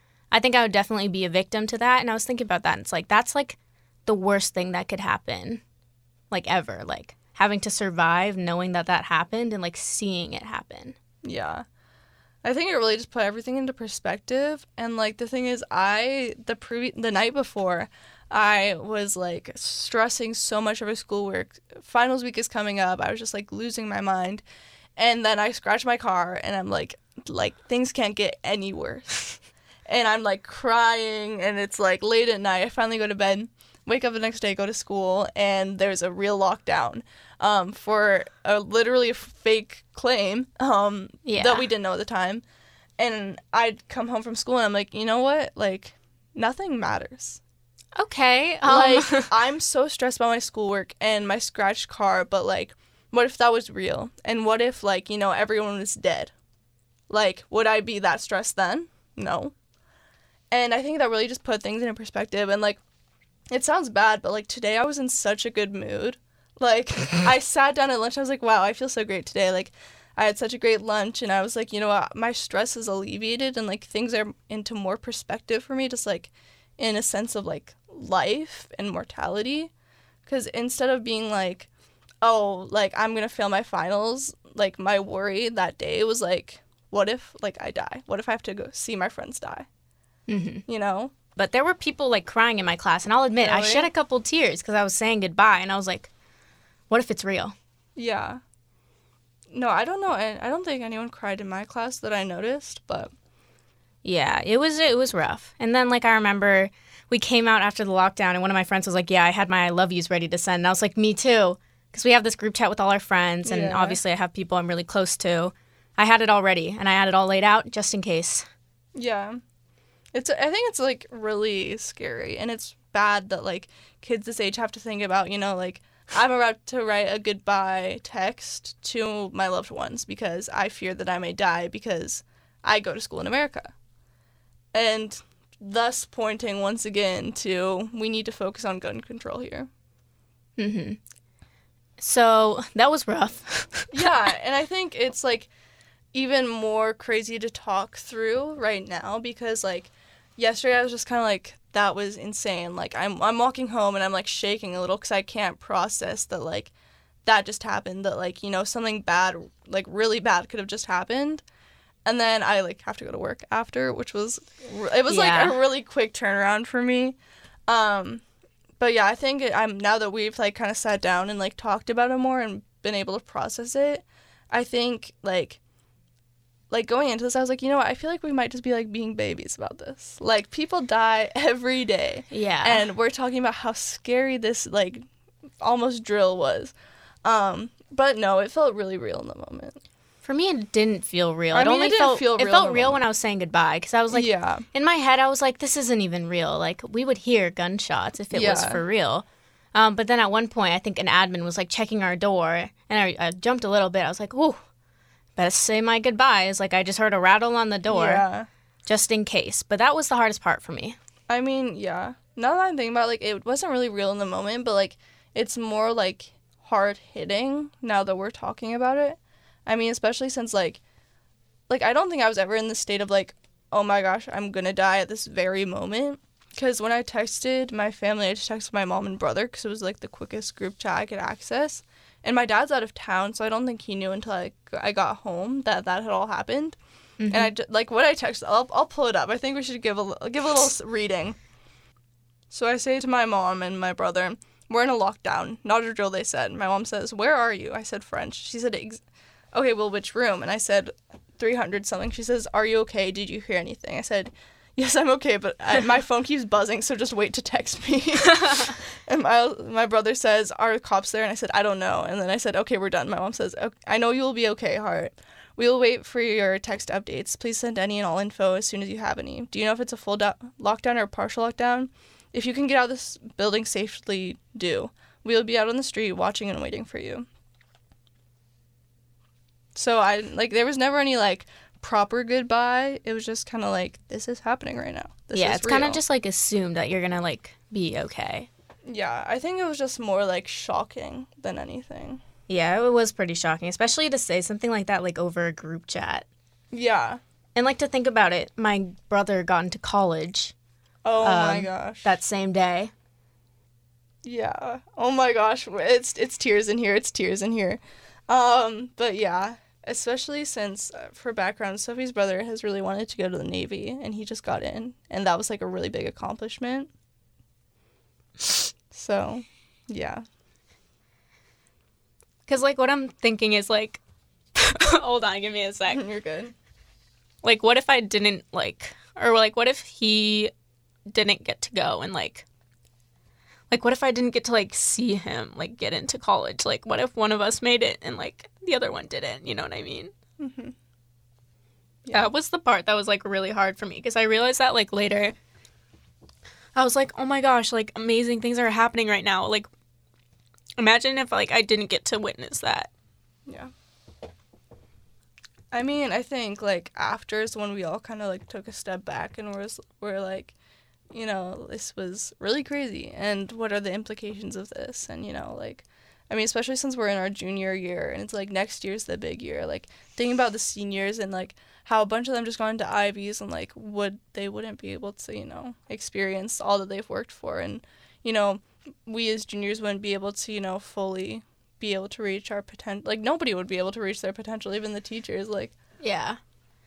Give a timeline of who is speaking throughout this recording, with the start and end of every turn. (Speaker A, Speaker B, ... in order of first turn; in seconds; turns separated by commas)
Speaker A: 0.3-5.6, Speaker A: 6.3-10.9, Speaker B: 11.2-11.6, Speaker B: 12.4-24.4, Speaker B: 25.0-29.2, Speaker B: 29.9-42.4, Speaker A: 41.2-41.7, Speaker B: 43.0-47.4, Speaker A: 48.0-49.3, Speaker B: 48.6-56.3, Speaker B: 57.1-59.5, Speaker B: 60.5-62.8, Speaker B: 63.5-79.7, Speaker B: 80.2-81.7, Speaker B: 82.2-89.7, Speaker A: 90.3-90.6, Speaker B: 90.7-91.1, Speaker A: 91.3-96.1, Speaker B: 93.4-93.9, Speaker A: 96.9-97.5, Speaker B: 98.0-98.4, Speaker B: 99.5-103.1, Speaker A: 104.0-118.5, Speaker B: 113.4-114.0, Speaker B: 119.0-119.4, Speaker B: 120.1-133.7, Speaker B: 134.7-139.7, Speaker A: 140.6-141.0, Speaker A: 142.0-144.1, Speaker B: 143.9-145.5, Speaker B: 146.1-156.7, Speaker B: 157.2-161.4, Speaker B: 162.0-167.2, Speaker A: 165.1-165.6, Speaker B: 167.7-168.2, Speaker B: 168.8-175.6, Speaker B: 176.7-185.1, Speaker A: 182.3-182.8, Speaker B: 185.6-189.8, Speaker A: 190.2-204.6, Speaker B: 191.5-193.0, Speaker B: 194.1-194.7, Speaker B: 198.3-198.8, Speaker A: 205.3-208.2, Speaker B: 207.9-208.5, Speaker A: 208.8-211.0, Speaker B: 211.3-220.8, Speaker B: 221.7-236.8, Speaker A: 237.2-237.5, Speaker B: 237.3-241.4, Speaker B: 242.5-249.0, Speaker B: 249.5-277.2, Speaker B: 279.7-286.0, Speaker A: 285.3-288.5, Speaker B: 288.9-292.2, Speaker A: 292.5-296.2, Speaker B: 296.7-297.2, Speaker A: 297.5-300.5, Speaker B: 301.0-302.1, Speaker A: 301.2-302.9, Speaker B: 304.2-316.9, Speaker B: 318.9-320.2, Speaker A: 322.5-324.0, Speaker A: 324.5-326.0, Speaker B: 325.9-326.5, Speaker A: 327.4-330.5, Speaker A: 331.1-332.4, Speaker A: 333.7-340.1, Speaker B: 340.4-340.7, Speaker A: 342.1-345.4, Speaker A: 346.7-349.7, Speaker A: 350.8-352.9, Speaker B: 353.5-353.7, Speaker B: 355.7-360.5, Speaker B: 361.1-385.7, Speaker A: 386.0-386.4